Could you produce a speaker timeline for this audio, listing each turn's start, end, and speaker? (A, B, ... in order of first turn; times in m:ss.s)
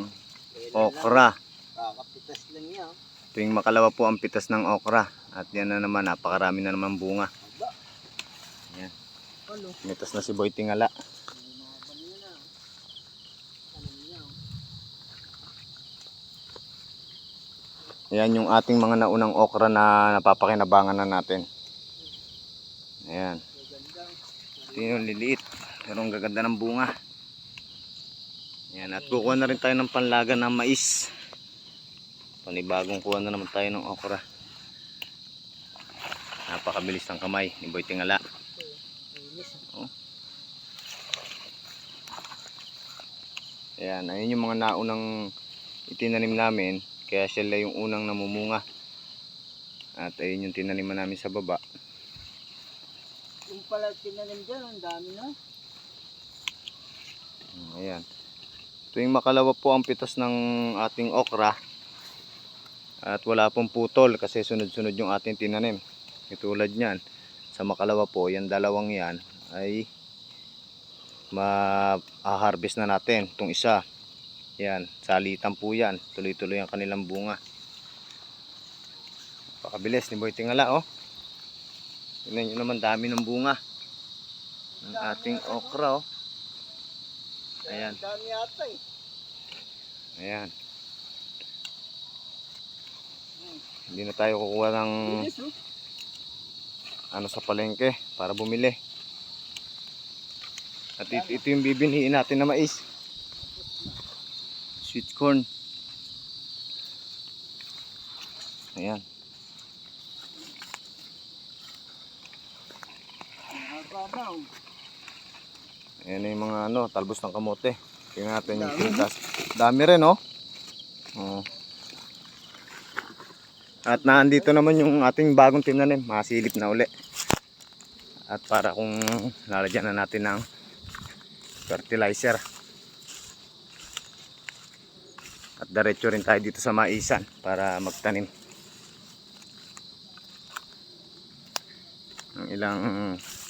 0:00.6-0:02.9 A
0:00.7-0:01.3 B
0:03.3-0:07.3 B
0:07.4-0:07.7 A
0:09.5-0:09.8 A
0:09.8-0:10.9 B
0:11.3-0:12.4 A
0:13.7-0:14.4 A
0:18.1-0:21.4 B
0:23.1-0:23.4 B
0:23.5-0:25.1 A
0:24.7-0:26.9 B
0:28.7-0:31.1 B
0:32.4-0:34.2 B
0:36.5-0:38.2 B
0:39.1-0:39.6 A
0:43.8-0:45.0 B
0:45.9-0:48.6 B
0:50.0-0:51.6 B
0:53.5-0:55.3 A
0:57.6-0:58.0 B
0:58.9-1:01.5 B
1:03.1-1:05.8 B
1:06.3-1:07.0 B
1:07.6-1:09.8 B
1:11.3-1:13.8 B
1:14.6-1:17.4 B
1:19.6-1:20.8 B
1:22.3-1:23.6 B
1:24.8-1:25.8 A
1:24.8-1:26.0 B
1:27.6-1:28.8 A
1:27.7-1:28.0 B
1:30.2-1:30.5 B
1:33.9-1:35.2 B
1:35.0-1:35.5 A
1:37.1-1:38.8 B
1:41.0-1:42.8 B
1:41.1-1:41.4 A
1:43.6-1:44.0 A
1:44.8-1:45.4 B
1:48.8-1:49.0 B
1:53.5-1:54.5 A
1:56.0-2:00.2 B
1:58.5-1:59.1 A
2:01.2-2:01.4 B
2:03.9-2:06.9 B
2:08.3-2:10.4 B
2:11.7-2:12.4 B
2:15.6-2:18.3 B
2:22.4-2:23.2 B